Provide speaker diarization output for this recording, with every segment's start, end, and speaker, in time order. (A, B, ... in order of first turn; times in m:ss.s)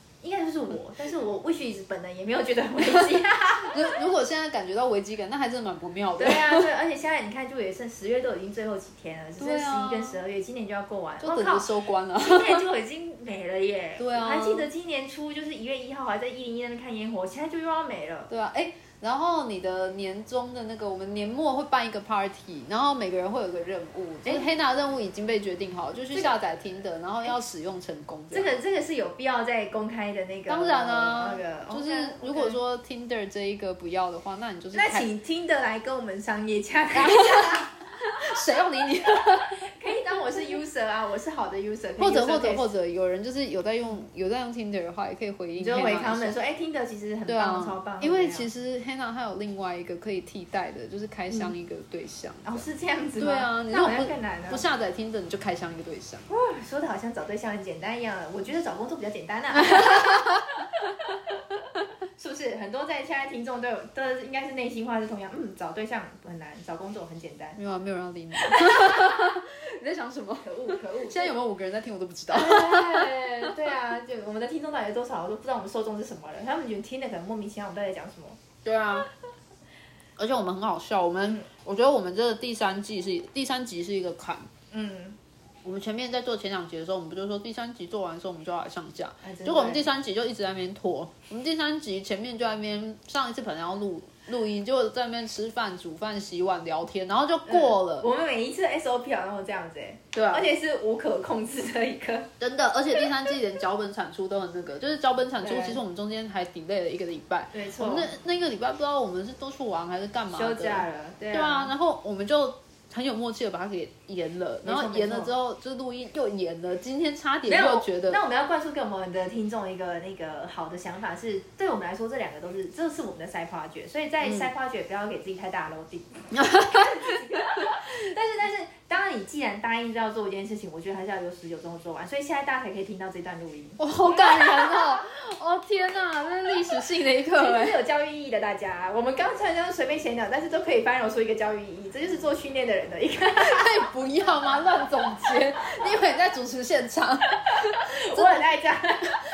0:00.2-0:04.0 A
0:03.4-0:06.7 B
0:06.2-0:18.3 A
0:09.4-0:10.2 B
0:11.2-0:12.6 B
0:14.0-0:14.7 B
0:18.3-0:28.5 B
0:24.2-0:24.5 A
0:28.3-0:32.6 A
0:30.5-0:35.1 B
0:34.7-0:38.2 A
0:36.9-0:39.7 B
0:39.0-0:42.7 A
0:42.0-0:46.4 B
0:45.6-0:48.5 A
0:47.3-0:52.7 B
0:52.4-0:54.6 A
0:53.2-0:56.3 B
0:56.3-1:07.6 A
1:07.6-1:13.5 B
1:08.4-1:09.2 A
1:10.4-1:11.4 A
1:12.3-1:18.4 A
1:18.6-1:19.1 B
1:20.2-1:24.5 B
1:24.7-1:25.2 A
1:25.6-1:38.1 B
1:29.2-1:29.9 A
1:37.4-1:42.3 A
1:40.1-1:40.5 B
1:42.4-1:58.2 B
1:45.4-1:45.8 A
1:47.5-1:48.1 A
1:50.3-1:51.7 A
1:54.6-1:55.3 A
1:57.4-2:15.0 A
2:06.3-2:07.2 B
2:13.8-2:17.8 B
2:17.3-2:23.8 A
2:23.4-2:28.4 B
2:27.8-2:29.1 A